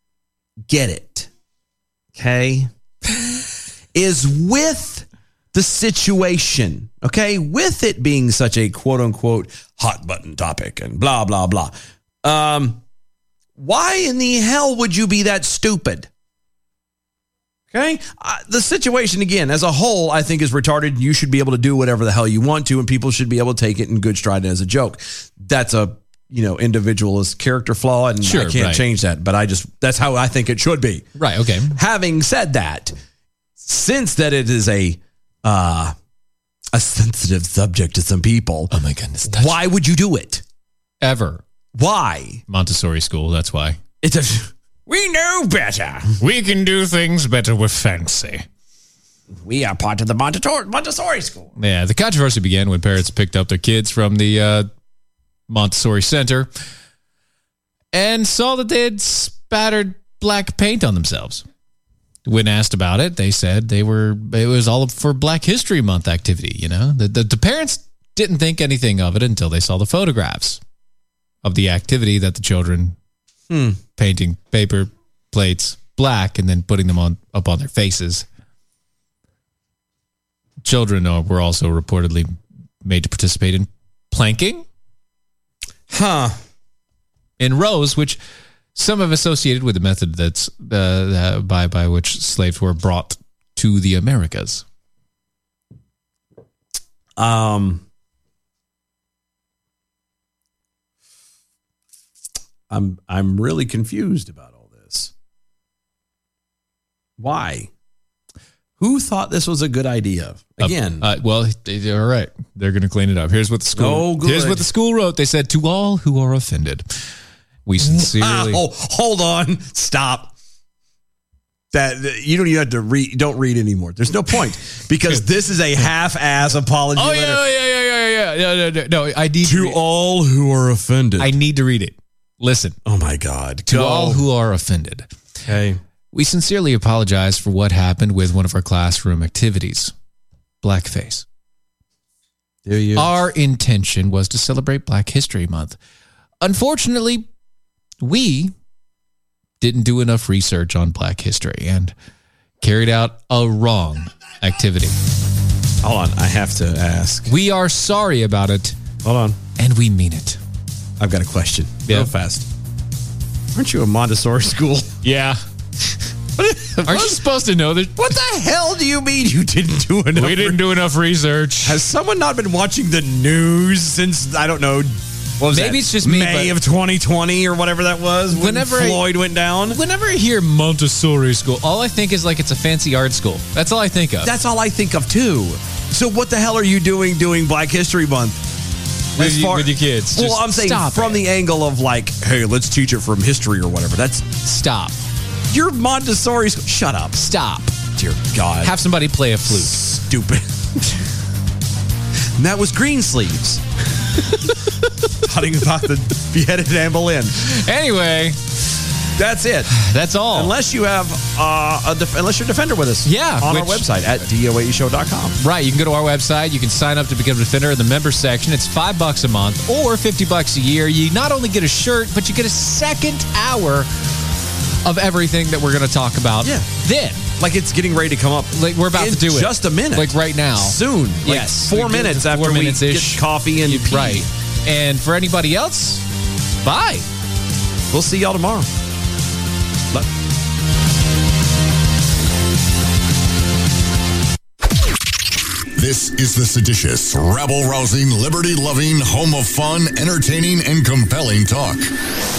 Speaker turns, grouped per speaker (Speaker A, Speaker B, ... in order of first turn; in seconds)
Speaker A: 0.7-1.3, 2.1-2.7, 3.9-12.8, 13.6-16.1, 17.7-31.1, 31.7-33.0, 33.6-35.9, 36.7-38.7, 39.3-40.4, 41.8-42.4, 44.0-46.2, 49.3-51.5, 73.5-73.8, 85.9-86.4, 97.2-97.8, 102.7-105.1, 107.2-107.7, 108.8-111.1, 113.8-114.7, 117.8-120.3, 121.7-127.4, 129.4-131.3, 132.8-134.2, 135.5-135.8, 142.7-143.1, 155.8-157.3, 159.0-159.4, 161.0-162.5, 163.5-164.9, 166.4-167.2, 168.0-170.6, 171.6-179.8, 184.2-188.4, 189.1-194.4, 195.5-197.2, 197.9-198.8, 199.5-201.0, 202.4-203.6, 205.2-207.4, 209.2-209.7, 210.3-215.4, 227.4-234.3, 237.9-238.7
Speaker B: 28.2-28.9, 31.2-31.8, 38.7-39.6, 41.0-41.4, 42.5-43.8, 46.2-48.5, 51.6-54.7, 55.5-56.5, 57.9-61.5, 62.3-70.6, 71.4-73.0, 74.0-78.2, 80.6-84.7, 87.4-88.2, 88.8-94.6, 110.6-116.8, 117.7-118.6, 127.0-129.8, 131.2-132.8, 133.7-135.1, 136.1-139.9, 140.6-141.2, 143.0-145.8, 146.4-147.3, 148.0-148.5, 149.6-151.9, 152.6-154.9, 157.3-158.8, 159.6-160.4, 161.9-162.1, 165.0-165.4, 166.8-168.1, 170.1-171.8, 175.5-176.6, 178.3-179.0, 179.7-184.3, 189.2-191.2, 194.4-195.0, 197.2-197.8, 198.6-199.8, 207.4-208.4, 209.7-210.5, 213.1-213.9, 215.4-223.9, 224.8-227.3, 228.5-236.1, 236.6-237.1
Speaker C: 245.8-251.9